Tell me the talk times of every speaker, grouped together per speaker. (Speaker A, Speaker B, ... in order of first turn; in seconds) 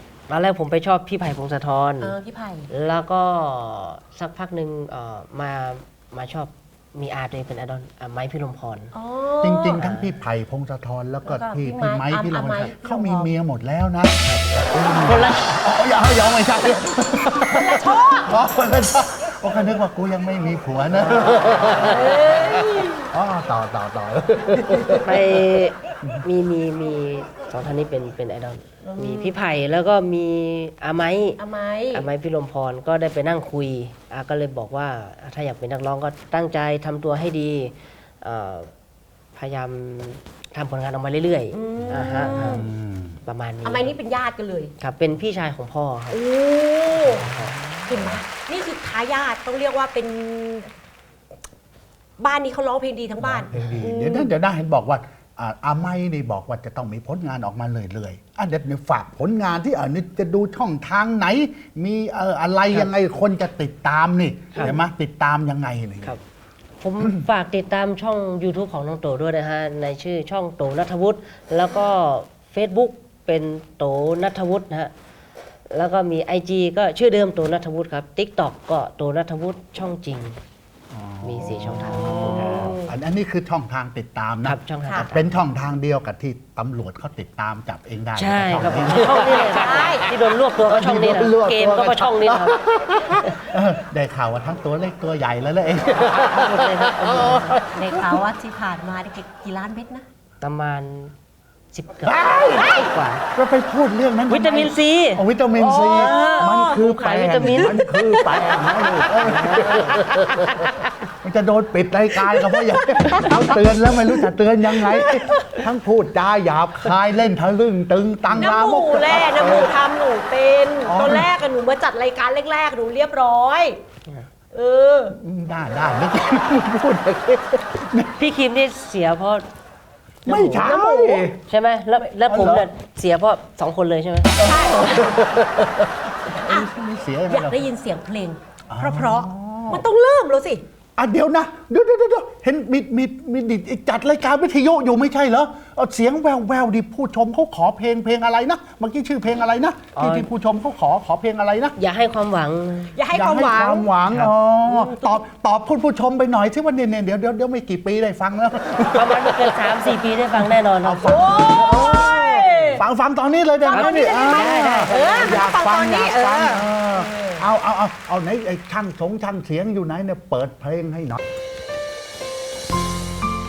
Speaker A: 0.3-2.1, 2.7-8.9, 9.8-10.1, 15.0-15.5, 25.0-31.4, 31.9-38.7, 39.4-42.6, 43.2-43.9, 44.8-46.2, 47.0-47.6, 66.8-74.9, 75.7-80.4, 81.2-82.8, 84.4-85.3, 88.1-92.7, 96.0-97.7, 100.4-101.1, 101.7-103.2, 104.3-105.2, 105.9-110.0, 128.2-129.4, 130.2-134.4, 150.0-150.3, 151.8-152.9, 158.9-161.4, 163.7-165.4
Speaker B: 2.0-2.7, 8.9-9.9, 11.2-13.3, 17.5-18.4, 21.8-23.0, 28.9-29.4, 31.4-32.1, 41.5-42.6, 43.6-44.7, 46.1-47.3, 47.9-50.7, 52.2-54.3, 82.0-82.9, 89.1-90.1, 97.7-100.0, 105.5-109.1, 112.5-113.4, 114.8-115.6, 118.4-123.8, 124.5-125.2, 130.6-131.2, 134.4-135.2, 136.3-136.7, 137.3-140.6, 153.0-153.9, 154.7-155.2, 161.0-162.8, 163.6-167.4
Speaker C: 9.4-25.4, 41.9-43.2, 47.1-48.2, 53.2-66.2, 80.9-98.2, 102.0-119.7, 120.8-121.3, 125.1-128.1, 130.2-131.4, 132.3-132.7, 134.4-137.6, 138.7-139.8, 141.0-151.8, 153.1-159.8, 160.8-171.2